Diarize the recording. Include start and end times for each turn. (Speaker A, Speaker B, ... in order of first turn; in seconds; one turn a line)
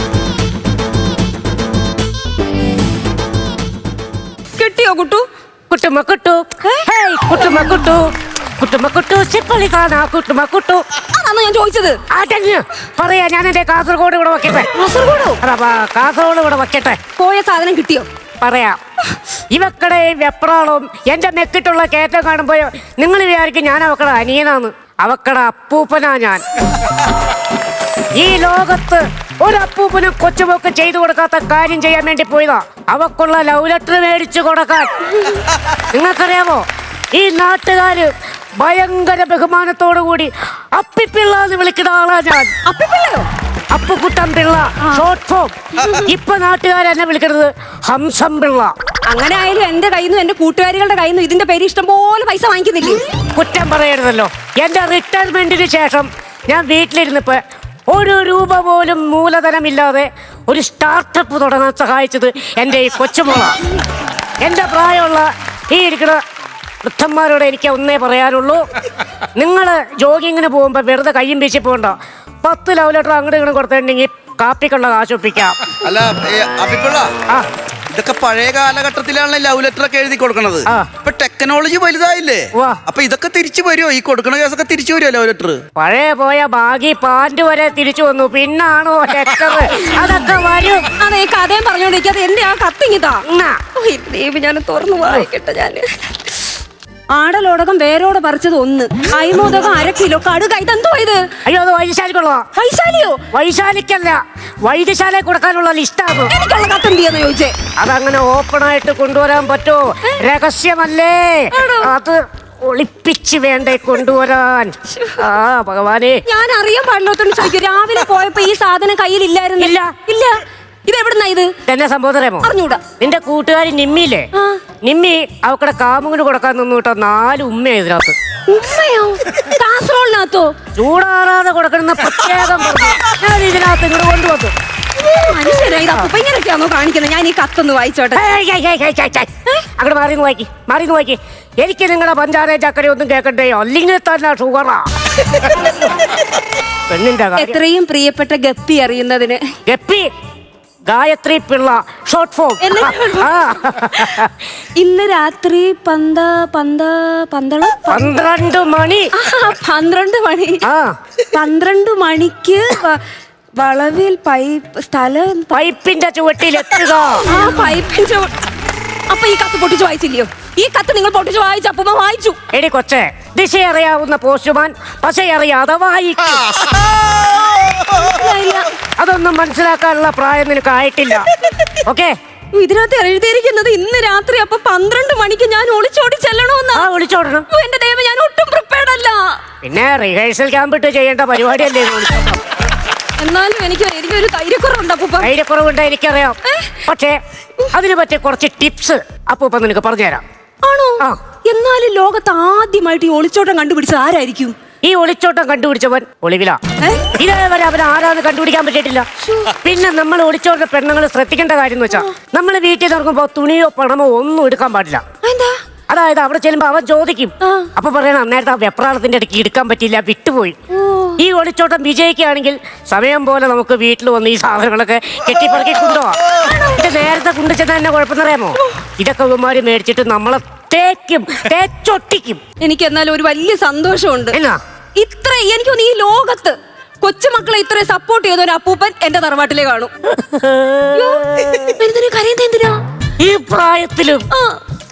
Speaker A: 4.6-5.2
Speaker B: 5.7-10.9
Speaker A: 6.6-7.7
Speaker A: 11.0-12.0
Speaker B: 12.1-14.7
Speaker A: 14.7-15.4
Speaker B: 15.4-17.0
Speaker A: 17.2-18.0
Speaker B: 18.4-18.8
Speaker B: 19.5-26.4
Speaker B: 28.1-35.0
Speaker B: 35.8-42.5
Speaker A: 42.6-43.2
Speaker B: 43.7-48.7
Speaker A: 45.8-46.1
Speaker A: 49.1-53.0
Speaker B: 53.3-63.7
Speaker B: 64.4-66.2
Speaker B: 66.8-68.6
Speaker B: 69.4-75.7
Speaker C: 75.8-77.1
Speaker C: 77.9-85.6
Speaker B: 80.7-80.9
Speaker B: 82.5-82.8
Speaker B: 85.8-90.9
Speaker A: 91.0-93.2
Speaker B: 93.3-93.6
Speaker A: 93.7-96.1
Speaker A: 97.1-101.3
Speaker B: 101.4-102.5
Speaker A: 102.5-103.2
Speaker B: 103.3-106.3
Speaker A: 106.3-107.5
Speaker B: 107.8-116.2
Speaker A: 111.5-111.9
Speaker A: 114.9-115.2
Speaker A: 116.3-121.5
Speaker B: 119.6-119.9
Speaker B: 121.6-124.3
Speaker A: 122.4-122.8
Speaker B: 124.8-128.2
Speaker A: 128.5-130.6
Speaker B: 130.7-134.5
Speaker A: 134.9-138.2
Speaker B: 138.1-146.1
Speaker B: 146.9-147.6
Speaker A: 147.4-149.4
Speaker B: 149.7-150.1
Speaker B: 150.9-154.4
Speaker A: 152.6-158.1
Speaker B: 157.9-159.1
Speaker A: 159.2-160.6
Speaker B: 160.6-160.9
Speaker A: 161.3-163.0
Speaker A: 163.6-165.5
Speaker B: 165.5-167.3
Speaker A: 167.2-168.3
Speaker A: 169.1-172.4
Speaker B: 172.5-176.6
Speaker A: 177.9-178.7
Speaker B: 178.8-181.3
Speaker B: 181.8-182.1
Speaker A: 182.5-186.8
Speaker B: 186.7-187.5
Speaker A: 187.5-189.3
Speaker B: 189.6-192.4
Speaker A: 193.2-195.3
Speaker B: 195.2-197.2
Speaker A: 196.4-196.8
Speaker B: 197.7-200.2
Speaker A: 200.6-204.5
Speaker B: 204.8-215.0
Speaker A: 206.8-207.1
Speaker A: 209.2-209.5
Speaker A: 215.2-215.5
Speaker B: 215.9-220.6
Speaker A: 217.4-217.7
Speaker A: 220.7-221.2
Speaker B: 221.2-232.4
Speaker A: 226.4-226.8
Speaker A: 232.6-234.3
Speaker B: 234.3-234.6
Speaker A: 235.0-239.9
Speaker B: 240.1-241.8
Speaker A: 240.9-241.2
Speaker A: 241.8-242.8
Speaker B: 243.2-244.3